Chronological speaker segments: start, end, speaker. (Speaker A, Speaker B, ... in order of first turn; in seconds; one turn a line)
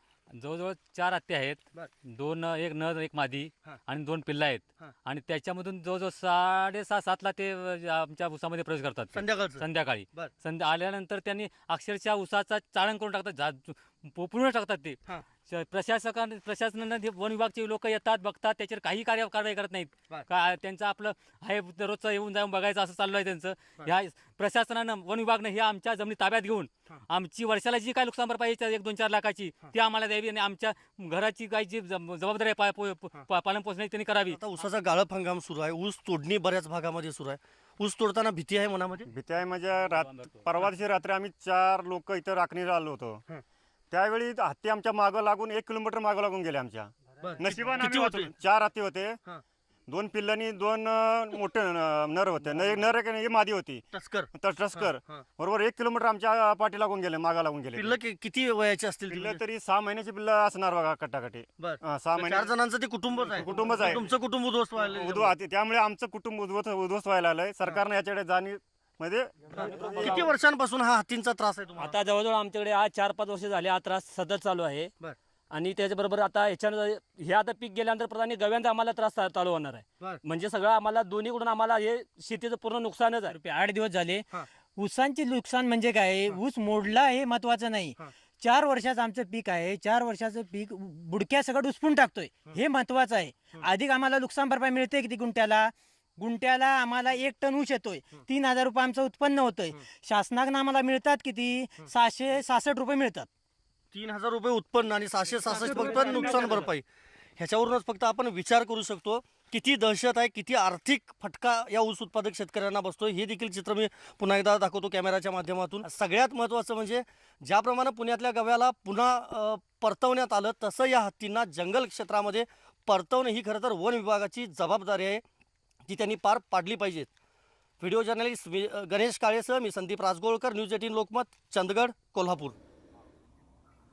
Speaker A: 0.3-34.4
Speaker B: 9.1-10.3
Speaker B: 34.3-39.1
Speaker C: 39.1-43.2
Speaker C: 43.9-49.2
Speaker B: 47.2-48.3
Speaker C: 49.9-57.9
Speaker B: 52.5-52.9
Speaker B: 53.9-55.2
Speaker B: 57.7-59.4
Speaker C: 59.1-62.5
Speaker B: 61.6-65.3
Speaker C: 63.4-64.0
Speaker C: 64.9-70.3
Speaker B: 69.5-72.0
Speaker D: 69.6-69.9
Speaker D: 71.8-74.9
Speaker D: 75.5-83.3
Speaker E: 83.3-103.3
Speaker B: 103.9-106.8
Speaker B: 107.4-125.2
Speaker B: 125.9-127.1
Speaker B: 127.8-132.6